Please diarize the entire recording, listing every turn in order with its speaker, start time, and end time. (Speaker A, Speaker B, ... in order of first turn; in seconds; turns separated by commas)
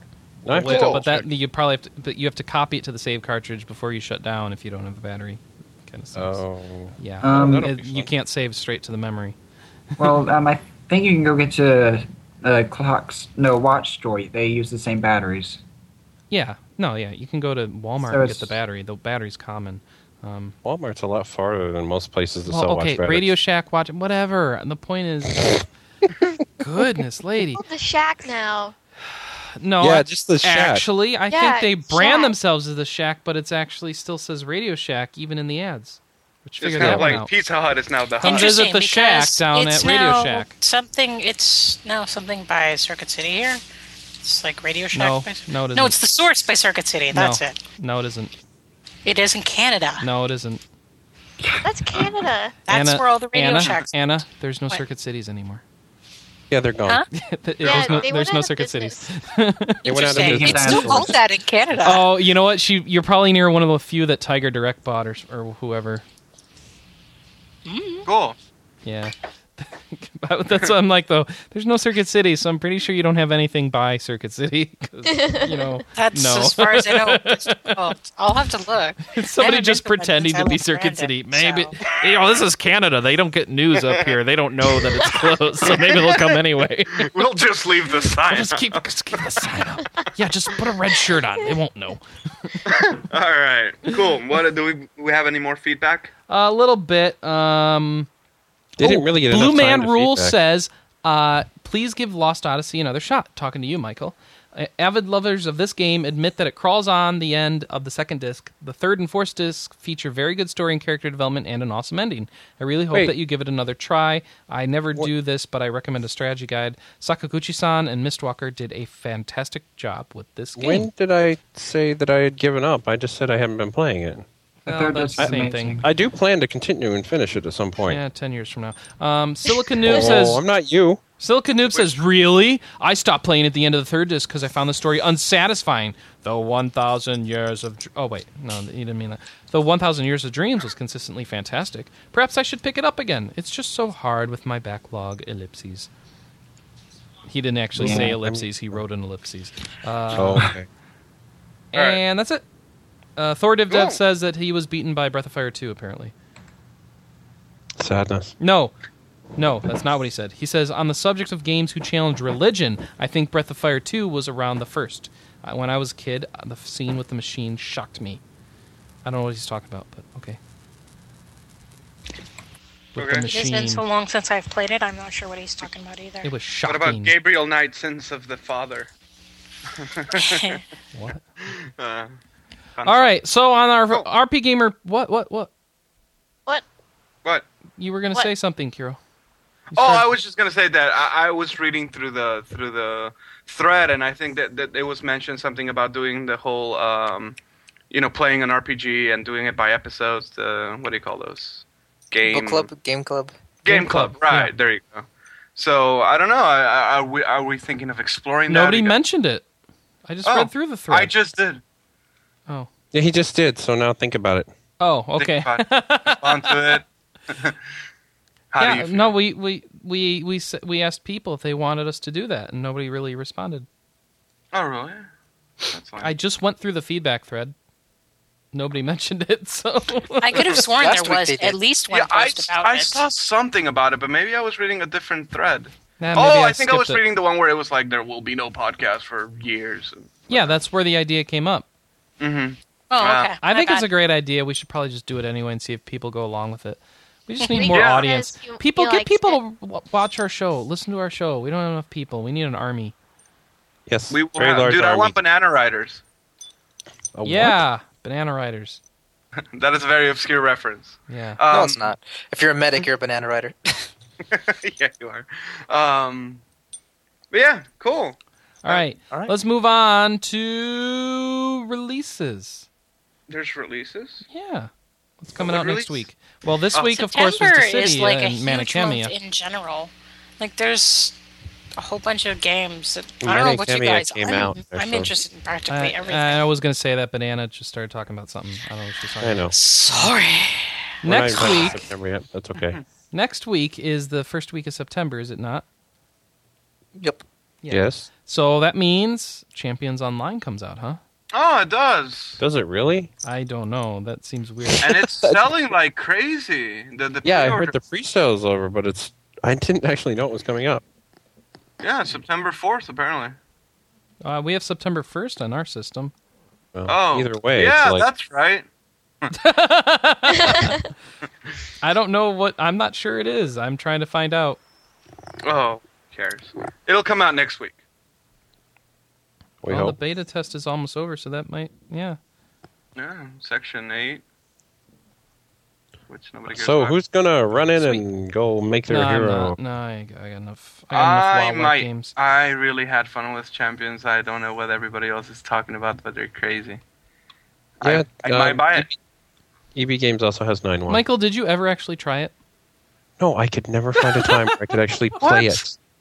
Speaker A: 0.5-1.3, Speaker B: 0.5-1.0, Speaker C: 0.5-6.4, Speaker A: 6.2-8.1, Speaker C: 7.0-9.4, Speaker D: 7.2-7.7, Speaker D: 10.0-15.6, Speaker C: 16.3-20.6, Speaker D: 18.1-18.6, Speaker A: 20.6-23.3, Speaker C: 22.5-25.6, Speaker C: 26.6-27.6, Speaker E: 27.6-28.7, Speaker C: 29.6-37.3, Speaker A: 29.8-30.9, Speaker E: 31.3-32.4, Speaker B: 36.6-38.6, Speaker A: 36.8-37.2, Speaker C: 38.2-40.5, Speaker F: 38.2-43.6, Speaker F: 44.2-47.6, Speaker C: 44.9-46.0, Speaker C: 47.1-48.3, Speaker F: 49.0-50.1, Speaker C: 50.0-50.6, Speaker E: 51.6-52.6, Speaker F: 52.7-54.1, Speaker C: 52.7-55.6, Speaker A: 56.5-57.0, Speaker C: 57.1-59.8, Speaker E: 57.6-59.1, Speaker B: 57.7-58.1, Speaker F: 59.8-62.1, Speaker A: 59.9-61.1, Speaker D: 60.2-61.1, Speaker C: 61.8-66.0, Speaker F: 67.7-68.1, Speaker B: 68.0-68.4, Speaker C: 68.8-77.9, Speaker E: 75.1-75.8, Speaker F: 76.0-81.8, Speaker C: 79.1-87.2, Speaker B: 83.8-84.2, Speaker B: 85.7-86.4, Speaker B: 86.9-88.8, Speaker C: 88.2-92.6, Speaker B: 92.7-96.1, Speaker C: 96.3-98.1, Speaker A: 98.8-100.4, Speaker C: 98.8-120.9, Speaker A: 120.6-124.3, Speaker C: 124.7-125.8, Speaker D: 124.7-125.9, Speaker A: 125.2-128.0, Speaker C: 127.9-130.4, Speaker A: 129.8-131.0, Speaker C: 131.2-145.9, Speaker B: 131.7-132.0, Speaker C: 147.3-150.5, Speaker A: 147.8-148.5, Speaker D: 147.8-148.2, Speaker A: 150.1-150.7, Speaker C: 151.7-152.4, Speaker B: 151.7-152.0, Speaker C: 153.2-156.1, Speaker B: 153.7-154.0, Speaker A: 157.8-158.4, Speaker C: 158.4-158.7, Speaker C: 159.4-168.2, Speaker C: 169.1-170.4, Speaker C: 172.9-173.8, Speaker B: 173.0-173.3, Speaker F: 173.3-176.3, Speaker C: 176.2-177.2, Speaker B: 176.7-178.9, Speaker B: 179.8-180.6, Speaker F: 180.1-180.6, Speaker C: 180.9-181.2, Speaker B: 181.5-182.1, Speaker B: 182.8-183.1, Speaker C: 182.8-185.5, Speaker C: 187.8-189.0, Speaker C: 189.7-190.1, Speaker B: 189.7-197.4, Speaker B: 197.9-202.7, Speaker G: 202.2-203.4, Speaker B: 203.6-209.0, Speaker C: 203.7-204.5, Speaker C: 208.5-209.4, Speaker C: 210.1-211.1, Speaker B: 210.2-211.6, Speaker A: 212.9-214.5, Speaker C: 214.8-216.8, Speaker B: 215.2-217.6, Speaker B: 218.5-219.2, Speaker C: 218.6-223.7, Speaker B: 224.5-225.1, Speaker B: 225.7-226.1, Speaker C: 226.0-227.6, Speaker C: 228.5-230.7, Speaker F: 230.2-233.0, Speaker G: 230.7-231.6, Speaker B: 231.9-240.6, Speaker C: 236.0-237.0, Speaker C: 240.3-241.7, Speaker B: 242.2-243.3, Speaker F: 242.9-243.9, Speaker C: 243.4-252.9, Speaker F: 247.4-247.7, Speaker E: 247.5-249.4, Speaker B: 247.7-248.1, Speaker A: 253.9-255.2, Speaker B: 254.1-256.0, Speaker A: 257.1-257.6, Speaker C: 257.2-258.8, Speaker B: 259.5-261.9, Speaker C: 261.1-261.4, Speaker G: 261.5-263.9, Speaker B: 264.3-266.4, Speaker B: 267.3-268.8, Speaker C: 268.6-272.7, Speaker B: 273.3-274.2, Speaker C: 274.3-274.7, Speaker C: 275.2-279.1, Speaker B: 275.4-276.0, Speaker F: 276.8-281.1, Speaker F: 281.8-286.5, Speaker A: 283.2-285.1, Speaker C: 285.7-289.5, Speaker A: 289.2-289.6, Speaker F: 289.5-290.7, Speaker C: 291.0-291.9, Speaker A: 291.0-292.8, Speaker B: 292.6-292.8, Speaker C: 293.1-295.6, Speaker G: 297.0-297.2, Speaker C: 297.6-301.0, Speaker A: 297.7-298.1, Speaker B: 301.3-302.4, Speaker A: 302.4-303.1, Speaker C: 303.2-305.0, Speaker B: 304.8-307.8, Speaker A: 304.8-305.6, Speaker A: 307.2-310.8, Speaker B: 311.8-313.4, Speaker C: 314.2-316.1, Speaker A: 316.8-318.1, Speaker B: 316.9-318.7, Speaker C: 319.3-320.8, Speaker C: 321.8-324.6, Speaker B: 325.4-327.8, Speaker A: 329.6-330.0, Speaker C: 329.7-332.2, Speaker B: 333.0-334.2, Speaker B: 336.1-337.0, Speaker A: 336.5-339.6, Speaker C: 338.9-342.1, Speaker B: 340.9-346.8, Speaker B: 347.8-348.9, Speaker A: 347.8-348.9, Speaker A: 349.8-351.0, Speaker C: 350.9-352.3, Speaker A: 353.2-355.8, Speaker B: 355.2-355.7